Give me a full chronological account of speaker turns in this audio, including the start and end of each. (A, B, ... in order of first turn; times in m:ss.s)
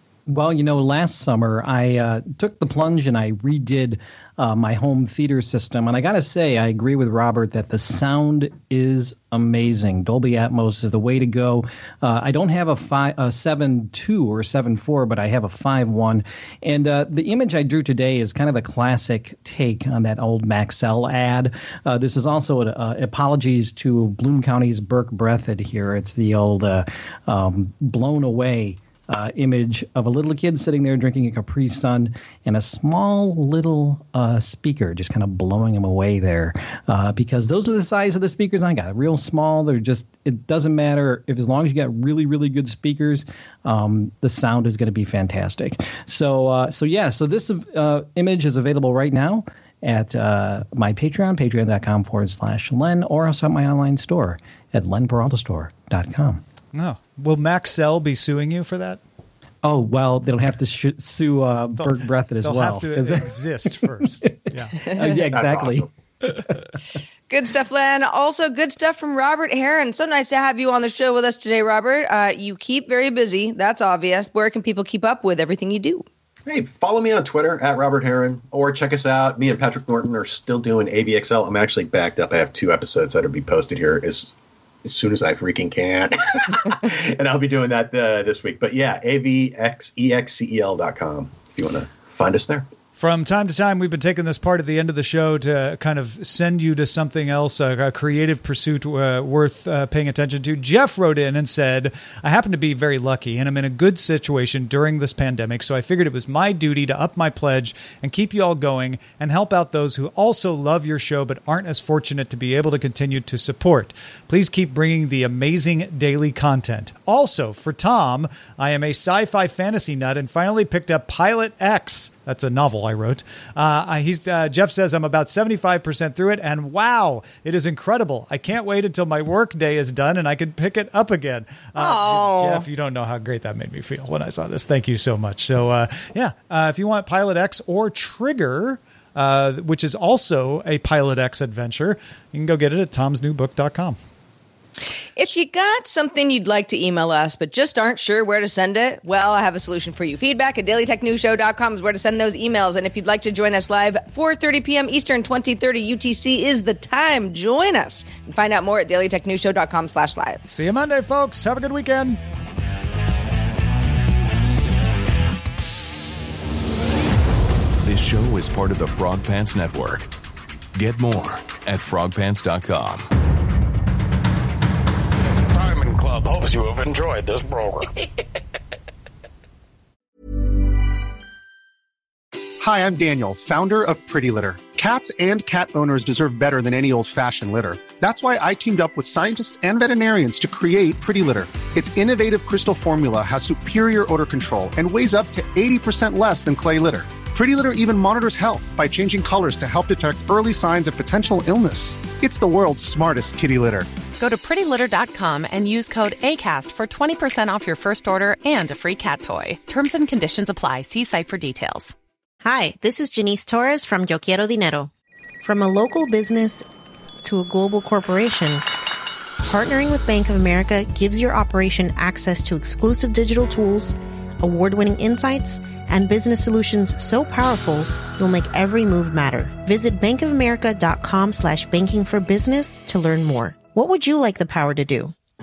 0:00.3-0:56.4 A
0:56.7-0:59.0 B
0:59.6-1:05.9 A
1:01.8-1:04.8 B
1:04.8-1:05.2 C
1:05.3-1:05.9 D
1:07.3-1:16.0 C
1:16.5-1:24.3 D
1:24.8-1:32.6 D
1:33.0-2:24.0 B
2:11.8-2:12.6 C
2:25.2-2:40.4 C
2:40.5-2:42.2 B
2:47.8-2:50.1 E
2:50.7-2:53.1 E
2:55.5-2:57.9 F
3:02.6-3:23.9 G
3:24.2-3:31.9 H
3:32.4-3:36.6 I
3:37.2-3:38.6 I
3:39.5-3:55.1 I